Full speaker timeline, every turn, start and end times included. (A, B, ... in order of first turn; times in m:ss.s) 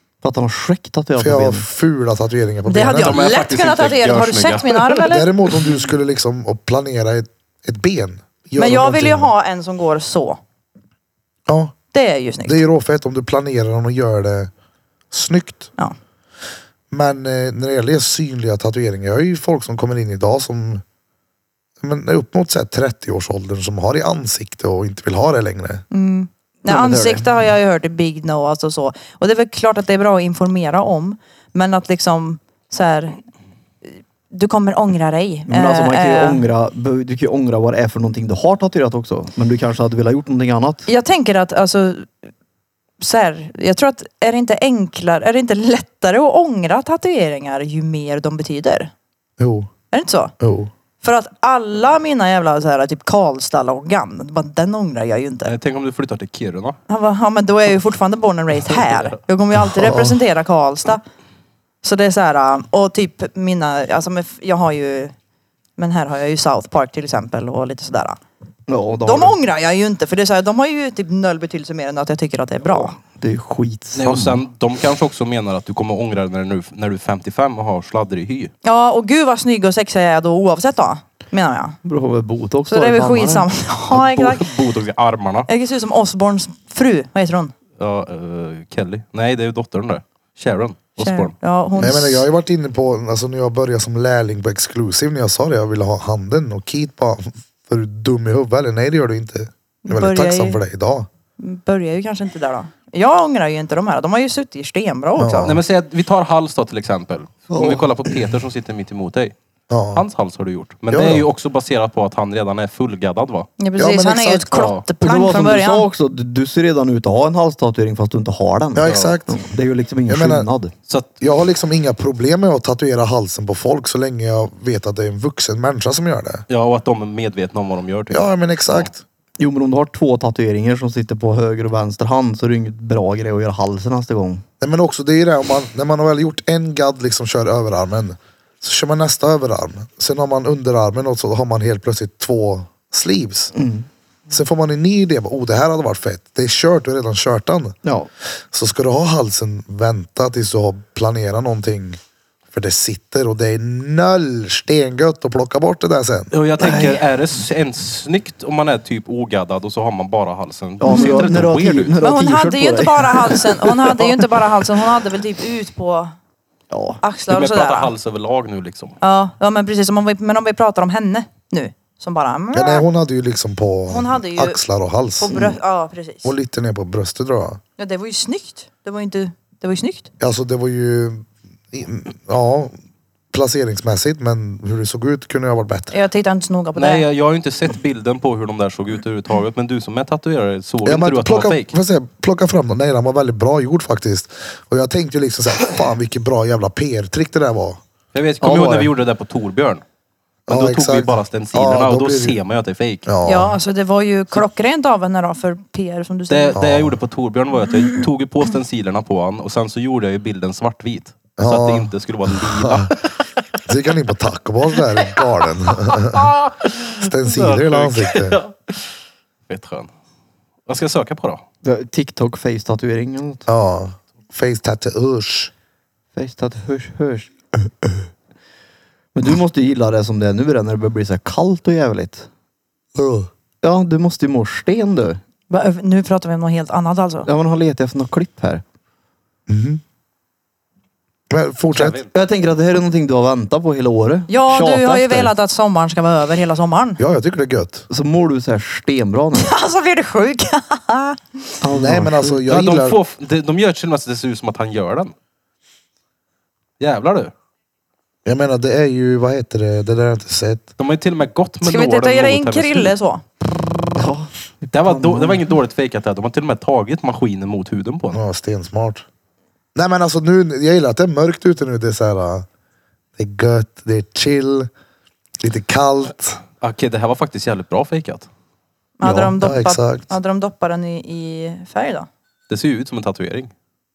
0:00.2-0:01.6 A
0:01.2-0:03.2 B
0:02.6-0:05.3 C
0:03.0-0:05.0 D
0:05.1-0:09.3 B
0:08.6-0:10.4 C
0:11.5-0:11.7 B
0:11.9-0:12.6 C
0:12.4-0:14.5 B
0:15.1-0:15.7 B
0:16.9-0:20.8 B
0:21.8-0:25.8 B
0:25.9-0:33.2 C
0:26.6-0:27.3 A
0:34.3-0:36.4 C
0:35.5-0:40.8 A
0:40.9-0:42.1 C
0:43.0-0:48.9 C
0:49.4-0:49.7 B
0:49.9-0:50.3 C
0:50.4-0:50.7 B
0:51.0-0:55.5 C
0:55.4-0:56.8 D
0:56.9-1:01.0 C
0:59.6-1:00.2 B
1:01.8-1:05.1 C
1:05.8-1:08.2 C
1:08.7-1:09.4 A
1:09.0-1:13.0 C
1:12.7-1:14.4 A
1:14.0-1:18.5 D
1:18.6-1:21.8 C
1:21.8-1:23.5 A
1:22.7-1:24.5 C
1:23.9-1:25.5 D
1:25.5-1:27.5 C
1:27.8-1:31.3 D
1:31.0-1:32.2 C
1:31.8-1:41.1 B
1:39.8-1:40.6 C
1:41.4-1:45.5 C
1:45.2-1:45.6 B
1:45.4-1:49.3 D
1:47.5-1:48.3 A
1:49.7-1:50.0 B
1:49.9-1:53.5 D
1:50.9-1:51.3 B
1:53.6-1:55.9 C
1:53.8-1:54.7 B
1:54.5-1:54.8 D
1:55.0-2:00.7 A
1:58.7-1:59.4 B
1:58.8-1:59.2 D
2:00.1-2:00.5 B
2:00.9-2:01.1 D
2:01.2-2:06.4 B
2:06.5-2:08.9 D
2:08.1-2:09.0 B
2:09.4-2:14.4 A
2:14.6-2:23.5 B
2:23.5-2:23.9 A
2:24.3-2:27.8 B
2:27.8-2:28.1 A
2:28.5-2:32.0 B
2:32.5-2:36.3 B
2:36.3-2:42.0 D
2:36.6-2:37.0 A
2:40.8-2:44.3 A
2:40.9-2:41.3 C
2:42.0-2:46.1 C
2:46.7-2:47.0 A
2:47.0-2:47.9 C
2:47.3-2:49.0 D
2:49.0-2:52.8 C
2:52.5-2:55.4 B
2:53.9-2:54.6 C
2:55.2-2:56.3 C
2:56.2-2:57.6 B
2:57.8-3:00.1 C
3:00.2-3:02.7 B
3:03.3-3:05.9 B
3:05.9-3:07.0 C
3:06.8-3:11.7 D
3:10.8-3:17.8 B
3:18.1-3:19.8 D
3:18.4-3:18.9 A
3:20.5-3:22.4 B
3:20.5-3:23.1 D
3:23.0-3:23.6 B
3:23.2-3:26.6 C
3:26.3-3:33.2 D
3:26.5-3:27.0 B
3:31.4-3:32.9 B
3:33.6-3:36.3 B
3:35.8-3:39.0 D
3:37.0-3:38.4 B
3:39.5-3:39.9 D
3:40.7-3:41.4 D
3:41.6-3:43.4 A
3:43.4-3:45.5 B
3:46.1-3:47.3 A
3:49.1-3:52.3 A
3:52.9-3:53.3 B
3:53.6-3:55.2 A
3:55.5-3:57.3 C
3:57.2-3:58.6 A
3:59.5-3:59.8 B
4:01.3-4:02.0 B
4:01.7-4:02.1 D
4:02.1-4:05.3 A
4:04.3-4:07.0 C
4:07.0-4:07.9 B
4:07.9-4:09.5 A
4:09.3-4:11.6 C
4:11.6-4:12.4 A
4:11.7-4:13.0 B
4:12.5-4:15.1 D
4:16.8-4:17.3 D
4:18.2-4:20.7 B
4:20.8-4:22.9 D
4:21.6-4:23.2 C
4:23.9-4:25.5 A
4:24.7-4:28.2 D
4:28.1-4:29.0 B
4:29.7-4:32.4 B
4:33.2-4:34.7 B
4:35.4-4:36.4 B
4:36.6-4:38.3 D
4:39.0-4:42.1 C
4:39.0-4:39.3 A
4:39.4-4:40.0 B
4:42.5-4:43.5 D